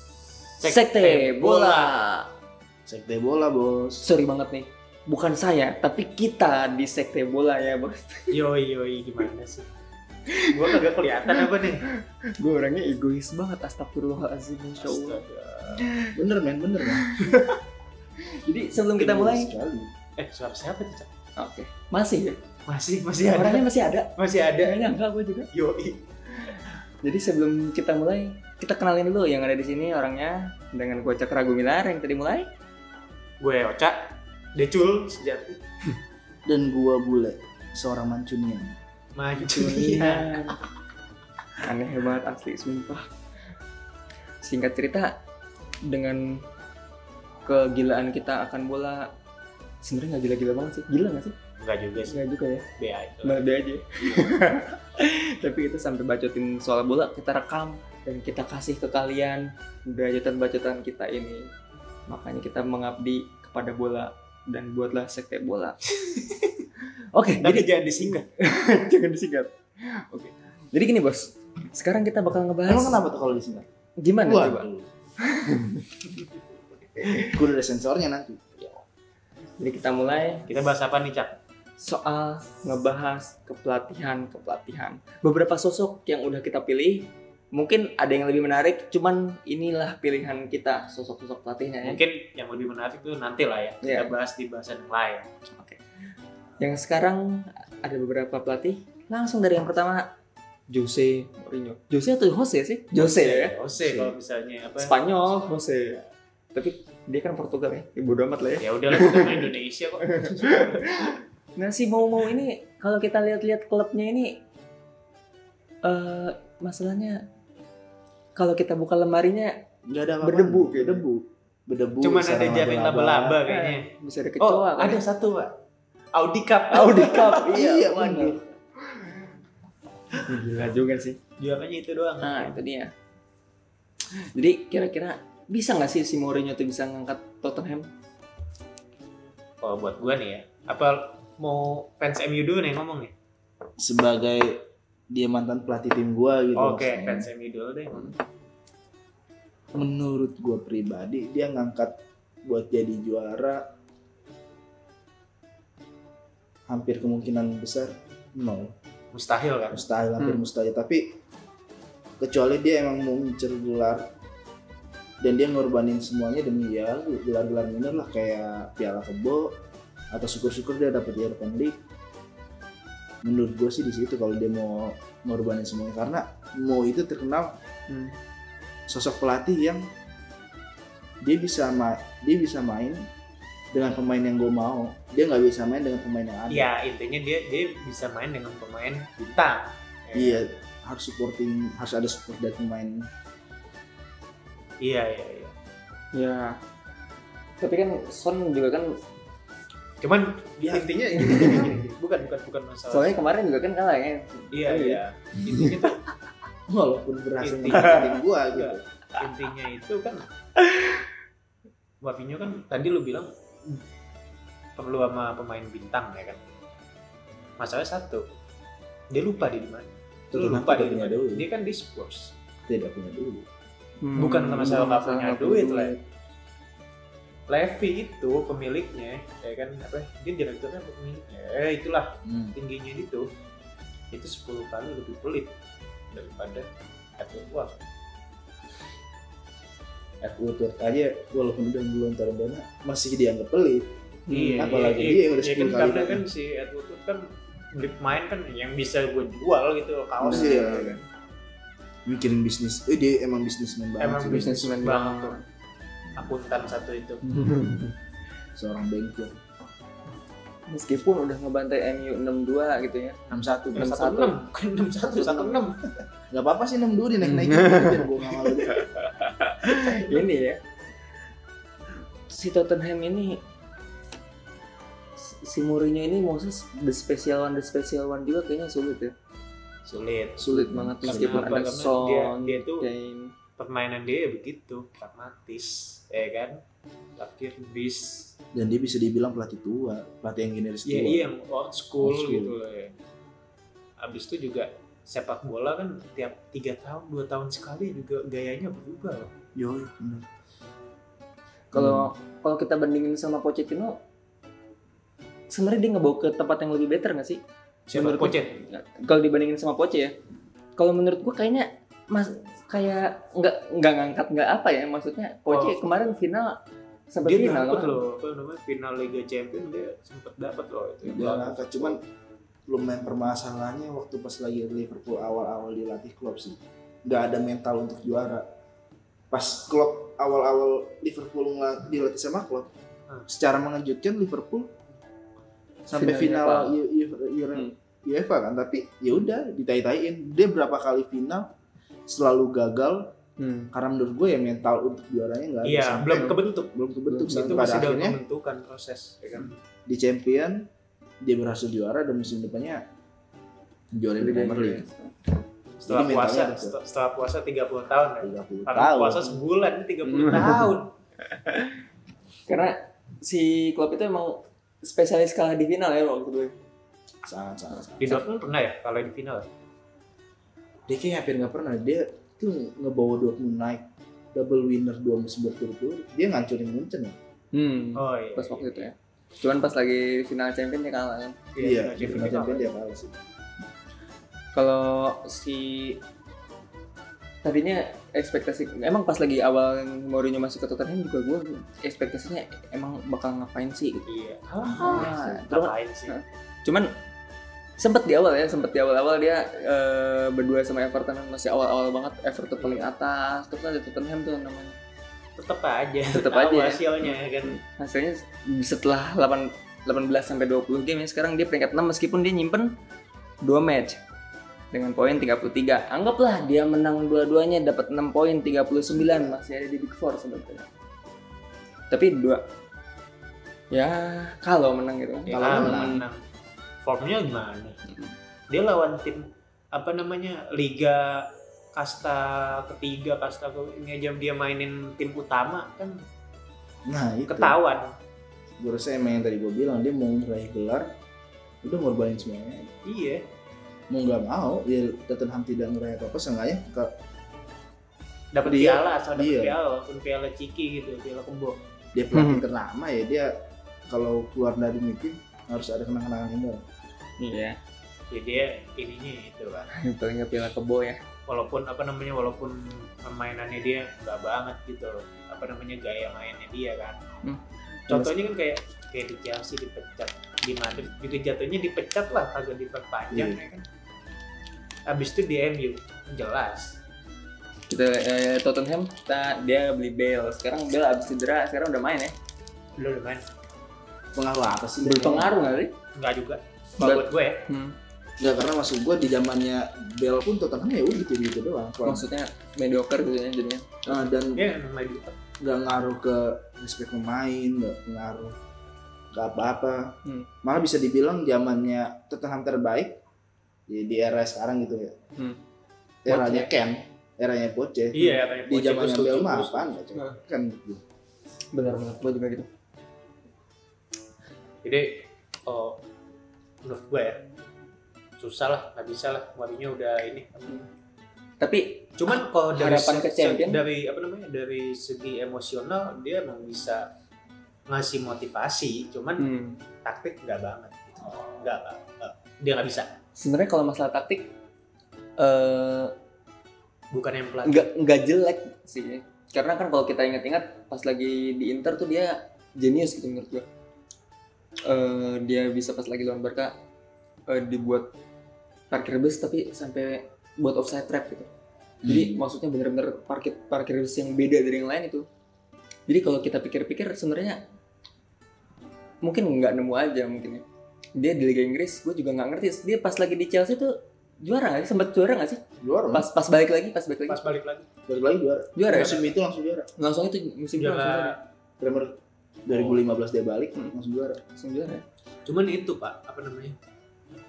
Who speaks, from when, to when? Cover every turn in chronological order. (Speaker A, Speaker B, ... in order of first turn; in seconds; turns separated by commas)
Speaker A: 0.6-1.9, Speaker B: 0.6-2.3, Speaker C: 2.9-4.0, Speaker B: 4.0-8.4, Speaker A: 8.3-9.7, Speaker B: 10.3-15.2, Speaker A: 10.5-11.8, Speaker A: 14.8-15.9, Speaker B: 15.8-16.2, Speaker C: 16.1-17.1, Speaker B: 16.8-17.6, Speaker B: 18.3-19.5, Speaker C: 19.0-19.9, Speaker A: 20.2-21.1, Speaker B: 21.4-22.4, Speaker A: 22.7-24.9, Speaker B: 23.3-25.5, Speaker A: 25.5-26.1, Speaker B: 26.4-32.5, Speaker A: 33.4-35.6, Speaker C: 36.5-38.8, Speaker A: 39.2-40.6, Speaker B: 39.5-40.6, Speaker B: 41.6-43.1, Speaker B: 44.4-45.2, Speaker B: 45.9-46.4, Speaker B: 47.5-49.1, Speaker B: 49.8-51.4, Speaker A: 51.6-52.2, Speaker B: 52.0-52.7, Speaker A: 52.8-53.5, Speaker B: 53.2-61.5, Speaker B: 62.1-65.8, Speaker A: 66.0-66.6, Speaker B: 67.1-67.7, Speaker A: 67.4-68.3, Speaker B: 68.3-73.0, Speaker C: 72.7-73.7, Speaker B: 74.0-74.7, Speaker C: 74.2-74.9, Speaker B: 75.2-76.0, Speaker B: 77.0-77.4, Speaker C: 77.2-78.6, Speaker B: 79.6-80.5, Speaker A: 80.5-81.4, Speaker B: 81.8-92.0, Speaker A: 91.8-95.3, Speaker B: 93.8-94.1, Speaker B: 96.6-100.1, Speaker B: 100.7-103.5, Speaker A: 102.9-105.9, Speaker C: 103.8-104.2, Speaker B: 104.8-106.0, Speaker B: 106.5-109.5, Speaker A: 108.6-111.1, Speaker B: 110.0-114.4, Speaker B: 115.8-117.2, Speaker B: 118.4-119.6, Speaker C: 119.9-123.4, Speaker B: 120.2-121.0, Speaker A: 122.0-123.9, Speaker B: 123.5-125.0, Speaker A: 124.4-125.6, Speaker A: 126.1-127.5, Speaker B: 126.7-128.4, Speaker C: 127.3-128.4, Speaker B: 130.2-131.2, Speaker A: 131.4-132.6, Speaker B: 132.2-132.9, Speaker B: 134.2-137.9, Speaker A: 139.6-143.1, Speaker C: 143.8-147.3, Speaker A: 146.6-148.2, Speaker C: 149.7-153.7, Speaker C: 156.7-158.7, Speaker A: 159.1-159.8, Speaker C: 159.7-161.2, Speaker C: 162.2-164.1, Speaker C: 165.2-169.6, Speaker C: 170.1-171.8, Speaker C: 173.2-177.6, Speaker B: 177.9-178.2, Speaker C: 178.9-179.8, Speaker C: 181.2-183.1, Speaker C: 183.7-186.7, Speaker A: 186.5-190.4, Speaker C: 190.1-193.1, Speaker A: 194.8-195.5, Speaker B: 196.1-196.6, Speaker B: 197.6-199.0, Speaker A: 200.0-203.3, Speaker C: 200.6-201.6, Speaker B: 201.2-201.7, Speaker B: 202.9-205.7, Speaker A: 204.5-206.0, Speaker C: 206.7-208.8, Speaker A: 207.4-210.3, Speaker A: 212.0-213.8, Speaker A: 214.8-216.4, Speaker A: 217.6-218.3, Speaker A: 219.1-222.3, Speaker C: 220.3-221.5, Speaker C: 222.7-223.5, Speaker B: 224.0-226.0, Speaker A: 224.2-225.9, Speaker A: 227.5-233.3, Speaker C: 232.2-232.5, Speaker A: 234.1-235.6, Speaker A: 236.1-236.7, Speaker A: 237.2-237.8, Speaker C: 240.2-244.0, Speaker B: 244.3-244.8, Speaker A: 244.3-251.0, Speaker C: 244.6-246.2, Speaker C: 250.2-251.0, Speaker C: 252.1-254.7, Speaker A: 254.0-255.4, Speaker B: 254.3-255.4, Speaker A: 256.2-257.2, Speaker B: 257.2-258.0, Speaker C: 258.6-259.4, Speaker B: 260.7-263.2, Speaker C: 263.3-263.9, Speaker A: 263.3-265.8, Speaker B: 263.8-264.4, Speaker C: 265.1-268.9, Speaker B: 267.2-270.6, Speaker A: 269.6-270.3, Speaker B: 272.3-273.4, Speaker B: 275.2-279.1, Speaker A: 279.9-280.5, Speaker C: 280.4-281.6, Speaker B: 280.4-283.3, Speaker A: 281.0-282.9, Speaker A: 283.6-286.6, Speaker A: 287.2-288.4, Speaker C: 288.5-291.3, Speaker A: 290.9-292.9, Speaker C: 292.0-292.5, Speaker A: 294.0-299.3, Speaker C: 299.6-300.3, Speaker B: 301.7-304.0, Speaker C: 301.7-302.1, Speaker B: 305.5-307.4, Speaker A: 307.9-308.6, Speaker B: 307.9-310.1, Speaker B: 310.8-316.6, Speaker A: 315.5-315.8, Speaker B: 317.1-318.0, Speaker A: 317.2-322.0, Speaker C: 321.1-322.0, Speaker C: 322.7-328.5, Speaker C: 329.3-332.7, Speaker C: 333.3-334.7, Speaker C: 335.9-341.5, Speaker B: 335.9-336.8, Speaker C: 342.1-343.1, Speaker B: 343.4-343.7, Speaker C: 343.7-348.2, Speaker A: 345.6-346.7, Speaker B: 347.1-347.9, Speaker A: 347.3-349.6, Speaker C: 349.9-350.7, Speaker C: 351.2-352.8, Speaker C: 353.9-354.9, Speaker B: 354.2-355.1, Speaker A: 355.8-360.9, Speaker C: 355.9-356.8, Speaker C: 358.2-359.4, Speaker B: 360.2-360.6, Speaker B: 361.3-361.7, Speaker B: 362.5-366.5, Speaker C: 367.2-368.2, Speaker A: 368.0-369.5, Speaker C: 370.9-377.2, Speaker B: 377.5-381.4, Speaker A: 377.9-378.9, Speaker A: 381.6-382.7, Speaker C: 381.6-383.2, Speaker B: 384.5-386.0, Speaker B: 387.4-394.1, Speaker A: 394.1-396.2, Speaker B: 394.7-396.9, Speaker C: 394.8-395.2, Speaker B: 397.8-404.8, Speaker A: 402.6-402.8, Speaker A: 405.4-407.6, Speaker B: 406.1-412.7, Speaker B: 413.4-414.0, Speaker B: 414.7-420.7, Speaker C: 418.8-419.4, Speaker B: 421.9-422.5, Speaker B: 423.7-426.1, Speaker C: 425.3-426.0, Speaker A: 425.3-426.2, Speaker A: 426.8-427.8, Speaker B: 427.9-428.1, Speaker A: 428.5-436.0, Speaker C: 436.9-437.6, Speaker A: 437.3-437.9, Speaker C: 438.6-440.9, Speaker C: 441.6-442.7, Speaker A: 442.9-443.2, Speaker C: 443.9-446.9, Speaker A: 448.3-451.6, Speaker C: 448.4-449.6, Speaker C: 451.9-453.3, Speaker B: 452.1-452.4, Speaker C: 453.9-456.6, Speaker B: 457.2-457.6, Speaker A: 458.1-459.7, Speaker B: 459.7-461.0, Speaker A: 461.3-467.0, Speaker A: 467.9-473.6, Speaker C: 473.1-473.4, Speaker A: 474.9-476.8, Speaker B: 477.7-482.1, Speaker A: 482.8-483.2, Speaker C: 484.1-485.4, Speaker B: 484.8-485.7, Speaker A: 485.9-487.4, Speaker B: 486.8-487.8, Speaker C: 488.2-492.1, Speaker B: 491.8-493.9, Speaker C: 493.9-494.4, Speaker A: 494.4-495.2, Speaker C: 495.4-498.4, Speaker C: 499.1-503.0, Speaker C: 503.7-505.0, Speaker C: 506.1-510.8, Speaker B: 506.1-506.5, Speaker A: 507.9-509.8, Speaker B: 511.5-512.5, Speaker A: 514.6-515.8, Speaker A: 516.6-517.2, Speaker A: 518.2-520.5, Speaker B: 521.4-523.6, Speaker A: 522.0-526.9, Speaker A: 527.7-529.3, Speaker B: 529.2-529.6, Speaker A: 529.8-533.0, Speaker B: 533.2-534.4, Speaker B: 535.2-536.0, Speaker A: 536.9-537.7, Speaker B: 537.5-543.5, Speaker B: 544.6-546.5, Speaker B: 547.3-547.9, Speaker B: 548.7-551.3, Speaker C: 551.8-552.2, Speaker B: 551.9-555.1, Speaker B: 555.9-557.4, Speaker B: 559.0-560.4, Speaker B: 561.0-567.2, Speaker C: 565.6-566.1, Speaker A: 567.1-567.7, Speaker C: 567.9-569.7, Speaker B: 568.6-569.0, Speaker A: 568.7-569.0, Speaker B: 569.8-571.2, Speaker A: 570.6-571.2, Speaker C: 571.6-574.2, Speaker A: 572.5-572.8, Speaker B: 574.3-574.9, Speaker A: 575.3-576.6